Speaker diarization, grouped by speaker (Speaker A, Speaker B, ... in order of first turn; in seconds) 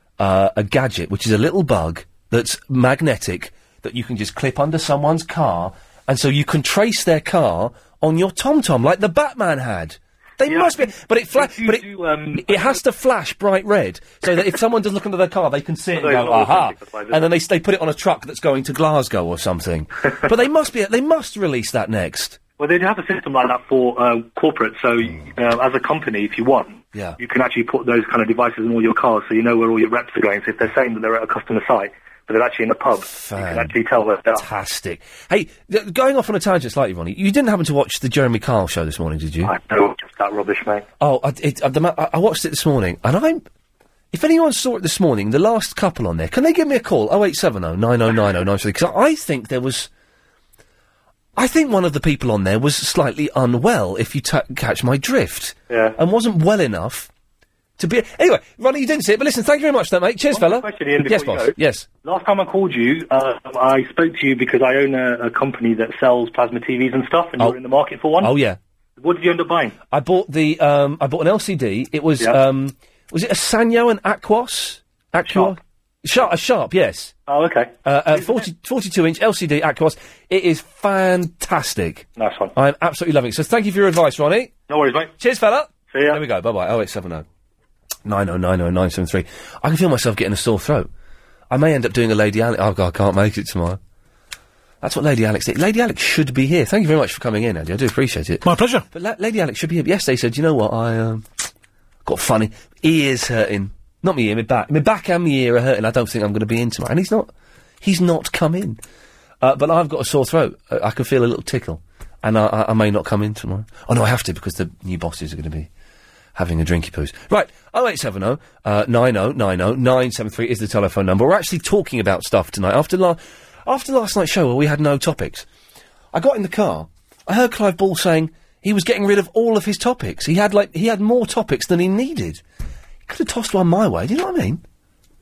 Speaker A: 0.2-22.4, 26.9-27.2, 33.0-33.7, 34.3-39.5, 41.0-43.4, 44.1-49.9, 51.4-57.1, 57.8-61.9, 68.2-68.6, 69.9-77.1, 77.8-84.5, 85.2-87.2, 88.0-90.9, 91.5-93.8, 94.8-101.3, 102.0-107.3, 107.8-108.8, 109.4-115.7, 116.3-125.5, 126.1-132.4, 133.1-134.6
Speaker B: 10.4-12.8, 16.0-17.3, 22.6-34.4, 39.4-40.8, 55.7-56.0, 60.3-68.3, 69.0-69.7, 75.3-75.5, 77.3-78.4, 82.2-82.5, 84.7-85.1, 85.9-86.2